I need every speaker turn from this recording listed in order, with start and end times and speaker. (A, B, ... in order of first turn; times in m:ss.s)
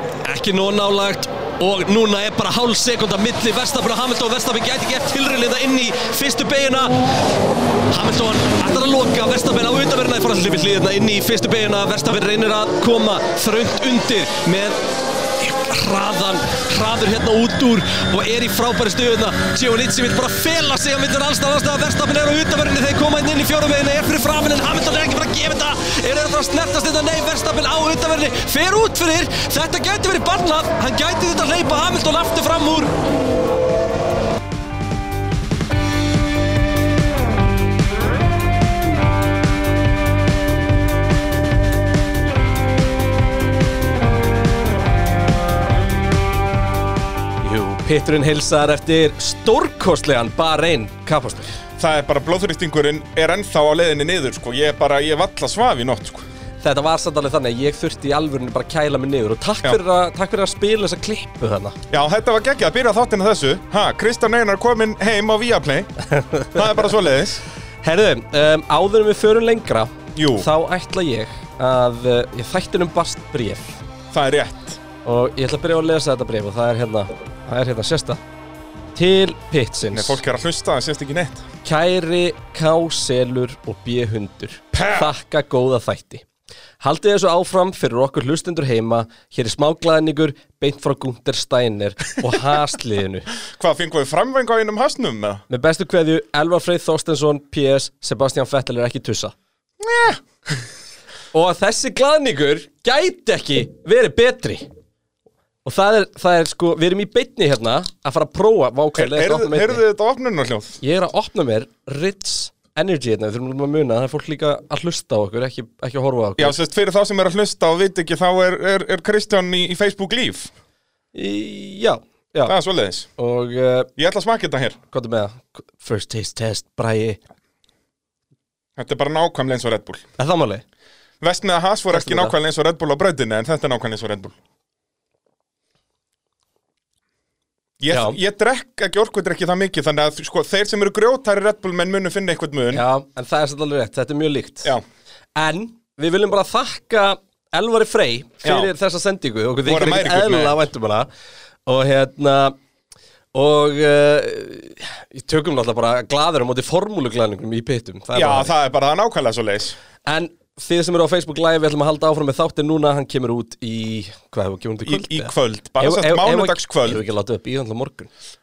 0:00.2-0:06.9 A
0:07.9-0:14.8 A
0:15.4-0:32.9 A
0:47.4-0:51.5 A
0:51.8-0:56.3 B
0:56.6-1:01.8 A
1:01.9-1:05.9 B
1:06.4-1:07.4 B
1:07.8-1:13.8 A
1:10.2-1:10.5 B
1:14.1-1:14.8 B
1:15.0-1:18.2 A
1:19.0-1:20.2 A
1:19.9-1:21.5 B
1:21.6-1:26.3 A
1:24.7-1:25.1 B
1:26.8-1:33.3 A
1:33.5-1:35.4 B
1:35.5-1:39.3 A
1:39.8-1:40.2 B
1:41.3-1:44.7 A
1:45.6-1:49.8 A
1:49.0-1:50.8 B
1:50.8-1:56.6 A
1:56.4-2:00.5 B
2:01.1-2:02.6 A
2:02.4-2:03.1 B
2:03.2-2:03.9 A
2:04.0-2:04.8 B
2:04.9-2:07.2 A
2:08.8-2:10.1 B
2:10.2-2:10.6 A
2:11.2-2:14.4 B
2:11.9-2:12.4 A
2:17.8-2:22.8 B
2:17.9-2:18.2 A
2:22.7-2:24.8 A
2:25.4-2:31.1 A
2:28.4-2:28.7 B
2:29.6-2:30.6 B
2:31.7-2:32.6 A
2:33.3-2:38.5 A
2:38.1-2:39.8 B
2:40.1-2:48.1 A
2:44.8-2:47.0 B